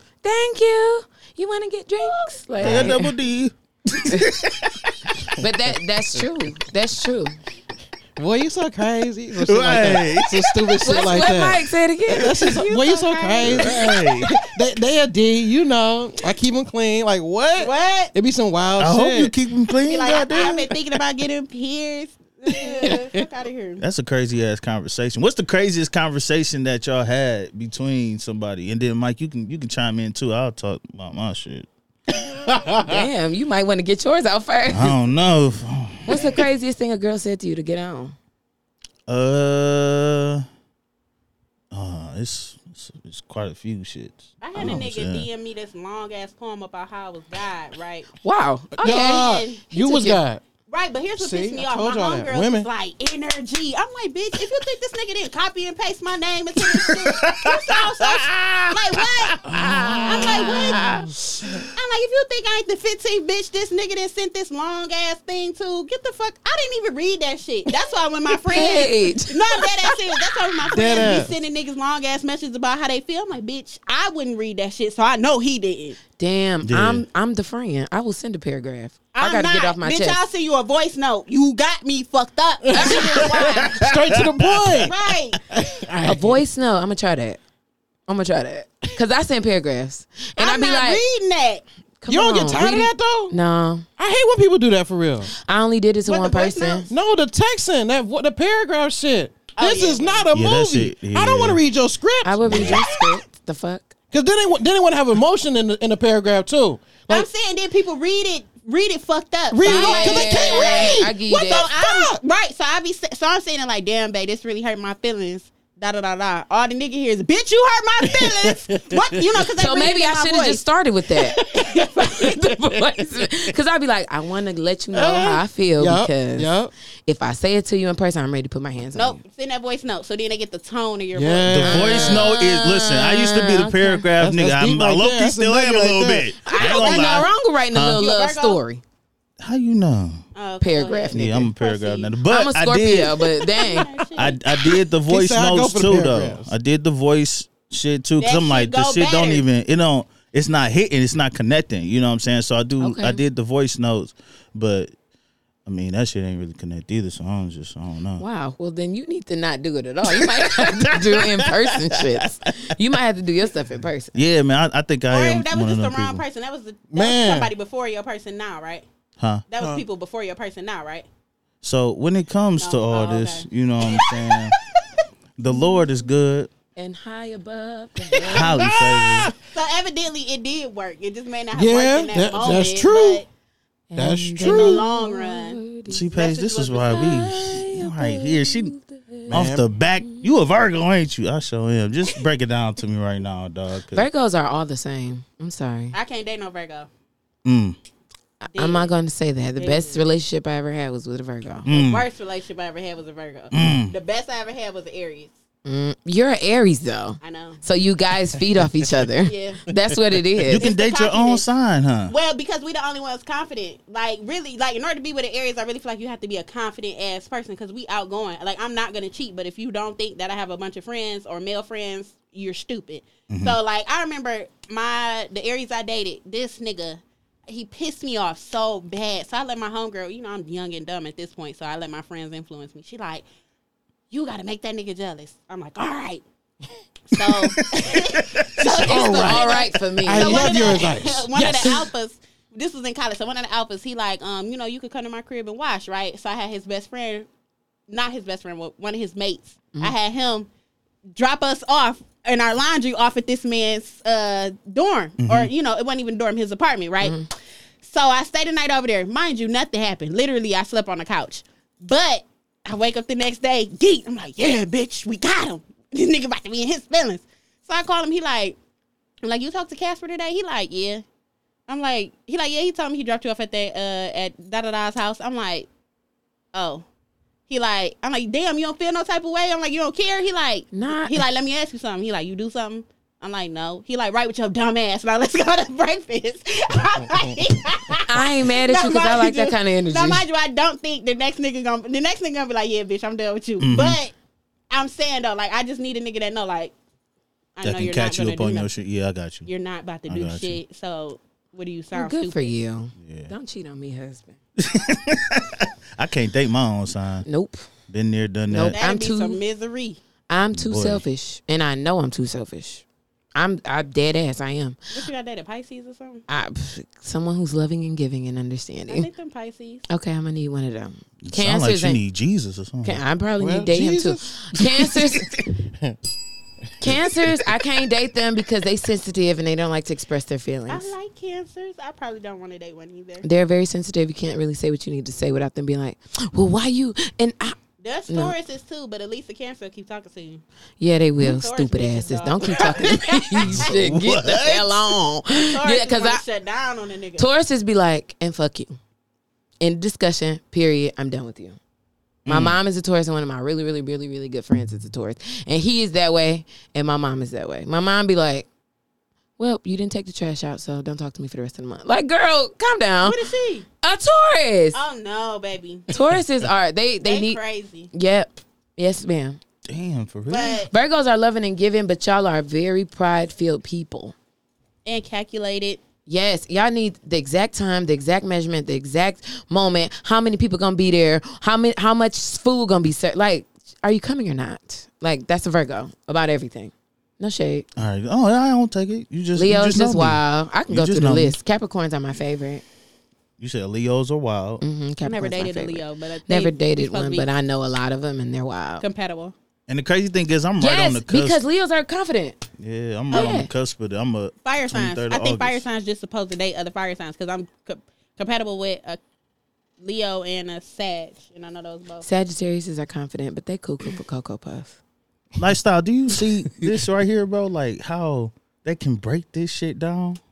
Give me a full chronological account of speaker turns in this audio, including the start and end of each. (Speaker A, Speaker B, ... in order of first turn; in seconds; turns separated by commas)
Speaker A: 0.2-3.1, Speaker B: 2.6-4.8, Speaker C: 2.6-2.9, Speaker A: 4.0-4.5, Speaker A: 5.4-7.3, Speaker C: 8.2-19.3, Speaker B: 9.3-10.7, Speaker A: 10.8-12.6, Speaker D: 12.3-14.0, Speaker B: 13.4-14.4, Speaker D: 17.6-18.1, Speaker B: 18.8-20.7, Speaker D: 19.8-23.8, Speaker C: 22.5-23.2, Speaker B: 23.8-31.7, Speaker B: 32.3-33.0, Speaker A: 32.8-35.0, Speaker B: 34.7-36.4, Speaker A: 36.1-38.1, Speaker B: 39.1-40.4, Speaker B: 41.7-45.3, Speaker D: 44.4-48.1, Speaker A: 48.2-50.2, Speaker C: 48.8-50.4, Speaker D: 48.8-49.6, Speaker D: 50.7-61.0, Speaker C: 51.2-52.7, Speaker B: 56.6-61.7, Speaker C: 59.6-60.5, Speaker D: 61.7-76.0, Speaker A: 68.5-70.0, Speaker C: 70.7-71.3, Speaker A: 76.2-80.2, Speaker B: 76.6-77.0, Speaker D: 79.1-83.8, Speaker C: 82.7-84.9, Speaker A: 82.8-83.2, Speaker B: 83.2-84.9, Speaker D: 84.8-85.4, Speaker C: 85.5-86.4, Speaker A: 85.9-87.4, Speaker A: 88.1-91.0, Speaker D: 90.4-91.6, Speaker A: 92.0-93.8, Speaker C: 92.1-93.4, Speaker C: 94.0-95.3, Speaker A: 95.4-96.9, Speaker D: 96.0-96.9, Speaker C: 96.9-103.1, Speaker D: 99.5-100.2, Speaker B: 100.3-101.6, Speaker A: 102.2-103.9, Speaker B: 102.5-102.8, Speaker C: 104.1-107.3, Speaker D: 107.1-120.6, Speaker C: 109.5-112.2, Speaker A: 109.6-111.7, Speaker C: 118.0-119.2, Speaker A: 119.5-126.5, Speaker C: 121.2-122.3, Speaker D: 121.7-122.0, Speaker C: 124.9-126.7, Speaker A: 127.0-129.2, Speaker D: 128.9-131.9, Speaker C: 131.1-132.2, Speaker B: 131.5-138.0, Speaker A: 131.6-134.1, Speaker C: 134.2-136.3, Speaker A: 136.4-138.8, Speaker D: 136.5-137.3, Speaker D: 137.8-138.6, Speaker B: 139.4-140.2, Speaker D: 140.3-142.1, Speaker A: 140.6-141.5, Speaker B: 141.1-143.3, Speaker A: 142.3-143.9, Speaker D: 143.2-144.4, Speaker B: 144.2-154.9, Speaker C: 145.1-146.5, Speaker D: 148.2-149.4, Speaker A: 152.8-153.2, Speaker B: 155.7-158.2, Speaker A: 158.2-164.2, Speaker B: 160.1-162.5, Speaker B: 164.1-166.2, Speaker D: 165.1-168.8, Speaker C: 166.9-167.5, Speaker D: 169.5-171.1, Speaker B: 171.6-174.6, Speaker D: 172.6-174.6, Speaker B: 175.4-176.5, Speaker A: 176.8-178.8, Speaker C: 178.2-179.3, Speaker B: 178.3-179.3, Speaker D: 179.5-183.3, Speaker C: 181.5-183.2, Speaker A: 183.9-186.1, Speaker C: 183.9-184.8, Speaker D: 184.4-185.6, Speaker B: 185.9-188.7, Speaker D: 186.1-187.3, Speaker A: 186.9-189.4, Speaker B: 189.3-194.1, Speaker C: 189.3-189.7, Speaker A: 190.0-190.3, Speaker A: 193.9-195.9, Speaker D: 195.9-196.9, Speaker B: 197.4-197.8, Speaker A: 198.4-201.7, Speaker D: 198.5-198.9, Speaker D: 199.6-200.1, Speaker B: 201.6-202.1, Speaker D: 201.7-205.3, Speaker B: 203.5-203.9, Speaker A: 205.7-210.7, Speaker D: 207.2-207.6, Speaker D: 209.2-209.6, Speaker B: 210.4-212.1, Speaker D: 210.6-211.5, Speaker D: 212.1-233.2, Speaker B: 223.3-223.6, Speaker D: 234.1-236.2, Speaker D: 237.1-247.3, Speaker C: 238.6-241.9, Speaker A: 238.7-240.9, Speaker D: 247.9-250.5, Speaker D: 251.1-257.2, Speaker B: 255.2-255.5, Speaker A: 257.0-257.3, Speaker D: 257.8-268.6, Speaker D: 269.2-271.0, Speaker D: 271.7-275.7, Speaker D: 276.5-276.8, Speaker D: 277.5-294.1, Speaker A: 280.7-281.2, Speaker A: 288.1-290.2, Speaker B: 293.6-294.0, Speaker D: 294.7-296.7, Speaker D: 297.6-298.7, Speaker B: 297.6-299.5, Speaker D: 299.4-302.5, Speaker B: 300.1-300.6, Speaker A: 301.9-304.4, Speaker B: 303.0-303.3, Speaker B: 304.6-307.2, Speaker A: 307.2-307.7, Speaker B: 307.9-308.8, Speaker A: 308.5-309.4, Speaker D: 308.7-310.0, Speaker A: 310.3-312.8, Speaker B: 310.5-311.0, Speaker A: 313.3-314.8, Speaker D: 314.9-316.2, Speaker A: 316.3-319.1, Speaker D: 318.9-319.8, Speaker A: 319.9-322.0, Speaker B: 321.2-323.0, Speaker A: 322.8-325.3, Speaker C: 323.4-324.9, Speaker A: 326.8-330.9, Speaker D: 330.7-333.2, Speaker A: 333.2-337.6, Speaker D: 337.8-340.4, Speaker A: 338.1-338.3, Speaker A: 340.8-346.2, Speaker D: 341.2-343.6, Speaker B: 343.5-344.9, Speaker D: 345.5-347.2, Speaker A: 347.2-348.8, Speaker A: 349.6-351.6, Speaker B: 352.2-352.6, Speaker A: 352.3-358.5, Speaker A: 359.4-363.2, Speaker D: 363.0-363.6, Speaker A: 363.8-364.8, Speaker D: 364.7-365.9, Speaker A: 365.9-367.4, Speaker D: 367.0-367.9, Speaker A: 367.9-369.4, Speaker B: 369.6-370.6, Speaker D: 370.3-370.7, Speaker A: 370.7-374.1, Speaker D: 374.8-375.8, Speaker A: 376.1-387.6, Speaker B: 387.8-391.4, Speaker A: 389.4-392.6, Speaker B: 393.4-394.6, Speaker A: 394.6-398.8, Speaker D: 395.0-397.2, Speaker D: 398.8-399.3, Speaker B: 399.7-401.4, Speaker A: 400.6-402.4, Speaker B: 402.6-405.6, Speaker A: 403.1-403.5, Speaker D: 403.1-403.4, Speaker D: 404.4-409.0, Speaker D: 409.8-412.1, Speaker A: 412.0-414.8, Speaker B: 415.4-420.2